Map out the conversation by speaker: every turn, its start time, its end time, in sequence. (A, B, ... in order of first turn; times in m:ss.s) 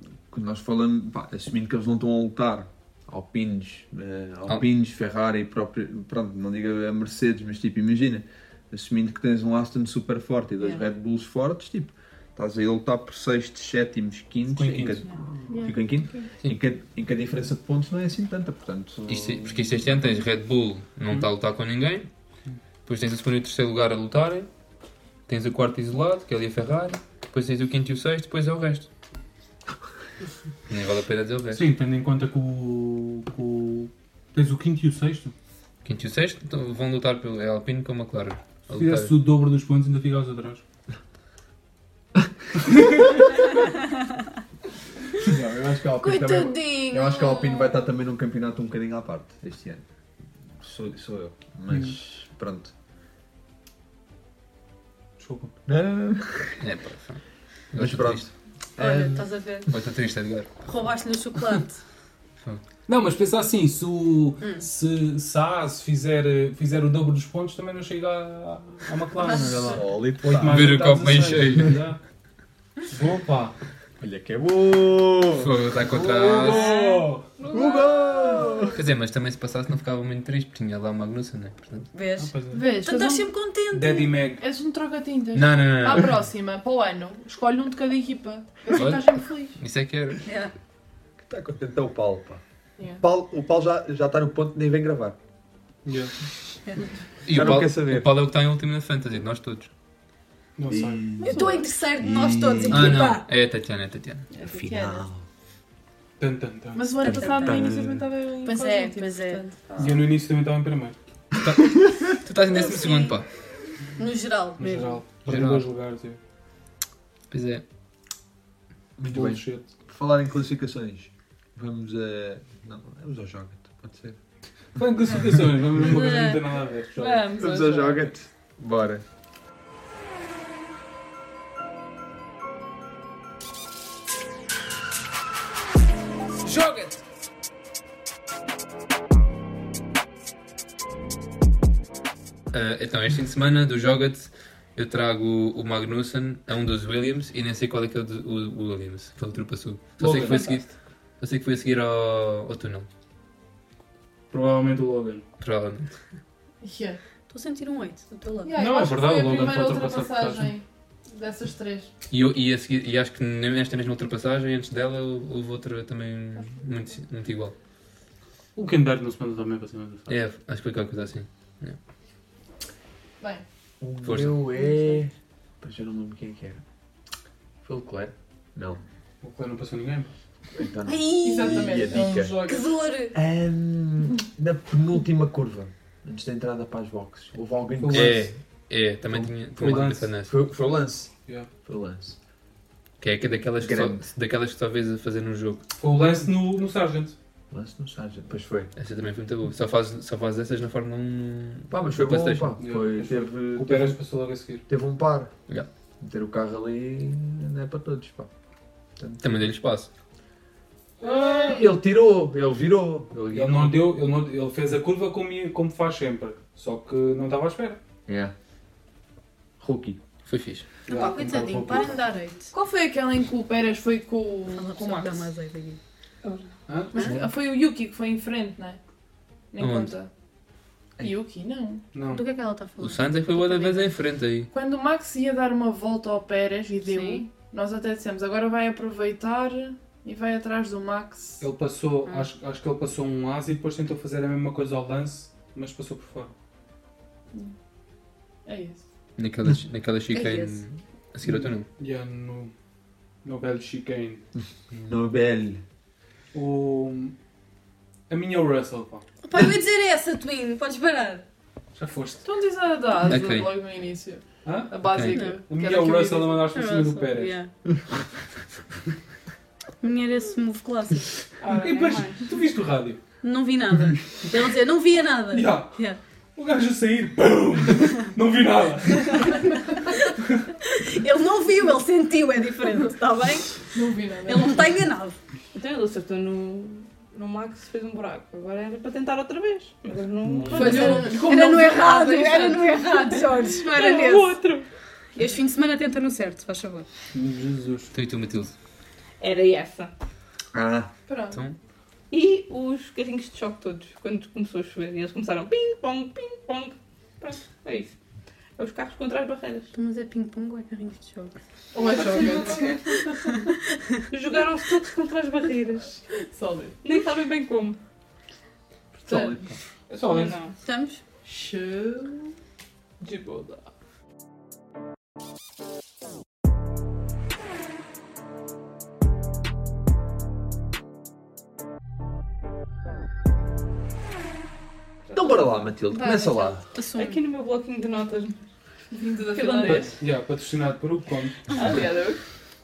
0:00.3-0:19.8 A
0:14.5-0:15.0 B
0:15.5-0:16.3 C
0:19.1-0:22.1 D
0:22.9-0:24.5 D
0:25.3-0:28.9 D
0:30.7-0:31.6 D
0:31.5-0:35.4 B
0:35.8-0:39.1 D
0:38.8-0:40.6 B
0:45.2-0:49.8 A
0:46.0-0:47.8 E
0:50.6-0:52.7 A
0:51.7-0:52.0 B
0:55.2-0:55.5 B
0:55.7-0:56.6 A
0:56.6-0:58.3 D
0:57.8-0:59.2 A
0:58.8-0:59.7 E
0:59.7-1:00.5 D
1:00.6-1:01.8 E
1:02.9-1:12.0 B
1:09.3-1:09.7 E
1:09.5-1:10.9 A
1:10.5-1:11.8 D
1:12.9-1:13.6 B
1:14.0-1:16.6 A
1:15.4-1:16.8 D
1:16.0-1:17.2 B
1:17.4-1:18.7 F
1:17.5-1:18.8 A
1:18.7-1:21.9 D
1:21.9-1:24.2 E
1:22.2-1:22.6 B
1:22.5-1:23.3 C
1:23.7-1:24.4 B
1:24.4-1:29.6 C
1:25.3-1:26.2 D
1:28.7-1:30.2 D
1:30.3-1:30.5 E
1:31.2-1:32.4 A
1:32.8-1:33.0 C
1:33.0-1:35.2 A
1:35.8-1:36.1 B
1:37.3-1:39.7 D
1:37.3-1:38.1 A
1:40.6-1:41.0 B
1:40.7-1:43.2 A
1:41.2-1:43.3 E
1:41.3-1:41.7 C
1:42.7-1:44.3 D
1:44.3-1:45.1 C
1:44.4-1:45.3 A
1:46.2-1:46.9 B
1:46.8-1:50.1 C
1:47.0-1:48.1 A
1:47.1-1:47.6 E
1:48.4-1:49.4 E
1:49.8-1:51.0 B
1:51.4-1:53.3 D
1:52.5-1:53.2 E
1:54.0-1:55.0 E
1:54.6-1:56.2 B
1:55.2-1:55.7 D
1:57.3-1:57.6 D
1:59.0-2:04.2 A
1:59.1-1:59.7 B
2:04.8-2:07.2 B
2:05.8-2:06.4 E
2:07.0-2:08.1 C
2:07.4-2:09.0 A
2:16.4-2:17.0 B
2:22.5-2:32.9 D
2:30.0-2:30.6 B
2:34.3-2:35.2 B
2:35.4-2:36.0 D
2:36.6-2:37.0 C
2:37.3-2:38.6 E
2:38.4-2:41.9 C
2:38.6-2:40.6 B
2:42.1-2:47.6 D
2:48.6-2:50.1 B
2:50.1-2:51.8 D
2:53.8-2:56.6 A
2:54.0-2:54.4 D
2:57.6-2:58.8 A
2:59.2-3:00.2 B
3:00.5-3:02.4 A
3:00.9-3:03.2 E
3:01.2-3:02.8 C
3:03.1-3:08.3 A
3:07.8-3:08.3 B
3:07.9-3:10.3 D
3:09.1-3:12.2 A
3:09.6-3:10.1 B
3:13.0-3:15.6 D
3:13.6-3:14.1 A
3:15.8-3:17.2 B
3:17.5-3:18.7 A
3:18.8-3:22.6 D
3:21.7-3:24.0 A
3:22.6-3:24.6 B
3:24.7-3:25.4 A
3:26.0-3:28.3 A
3:29.0-3:29.4 A
3:29.2-3:29.9 D
3:31.4-3:33.9 A
3:33.3-3:37.8 B
3:38.1-3:38.3 A
3:39.6-3:40.0 A
3:40.3-3:40.7 D
3:40.9-3:42.0 B
3:40.9-3:42.5 E
3:42.5-3:45.3 C
3:44.5-3:45.8 E
3:46.2-3:46.5 F
3:46.7-3:47.0 B
3:46.9-3:48.8 C
3:49.5-3:50.1 C
3:49.6-3:50.0 D
3:51.0-3:51.8 C
3:51.9-3:52.2 B
3:52.1-3:53.9 E
3:52.8-3:54.5 D
3:54.5-4:01.5 C
3:56.8-3:57.3 E
4:01.4-4:06.3 B
4:08.5-4:08.8 C
4:09.2-4:11.7 D
4:10.1-4:10.6 E
4:11.8-4:12.5 B
4:13.2-4:14.2 B
4:14.7-4:15.6 A
4:16.3-4:17.2 B
4:18.1-4:19.1 B
4:19.2-4:21.2 E
4:21.8-4:22.2 B
4:22.2-4:26.5 C
4:23.0-4:23.6 D
4:24.4-4:27.4 B
4:24.8-4:25.3 D
4:25.1-4:25.4 E
4:26.5-4:27.5 E
4:29.8-4:31.1 E
4:31.4-4:32.3 F
4:31.6-4:33.0 B
4:33.2-4:36.0 E
4:35.3-4:35.8 B
4:36.4-4:39.7 B
4:40.7-4:43.7 E
4:43.7-4:44.6 C
4:44.2-4:45.2 E
4:45.5-4:51.2 F
4:50.2-4:50.9 B
4:50.5-4:52.8 C
4:50.5-4:54.4 E
4:53.5-4:54.7 F
4:55.2-4:56.9 E
4:57.1-4:57.9 B
4:57.9-4:58.5 D
4:59.2-4:59.9 F
5:00.5-5:00.9 A
5:01.1-5:01.4 C
5:01.3-5:01.6 D
5:02.1-5:07.9 F
5:08.6-5:09.7 F
5:09.7-5:11.3 E
5:11.7-5:13.0 C
5:11.9-5:13.0 F
5:14.1-5:16.0 F
5:16.2-5:16.8 C
5:16.8-5:17.8 F
5:19.0-5:19.6 A
5:19.1-5:19.4 C
5:19.9-5:20.6 F
5:20.6-5:21.0 E
5:21.2-5:22.4 C
5:23.0-5:23.7 F
5:35.1-5:36.6 A
5:36.0-5:36.5 C
5:36.7-5:37.2 E
5:36.9-5:38.4 F
5:38.9-5:39.9 C
5:39.3-5:40.0 F
5:39.6-5:41.6 B
5:41.5-5:42.2 F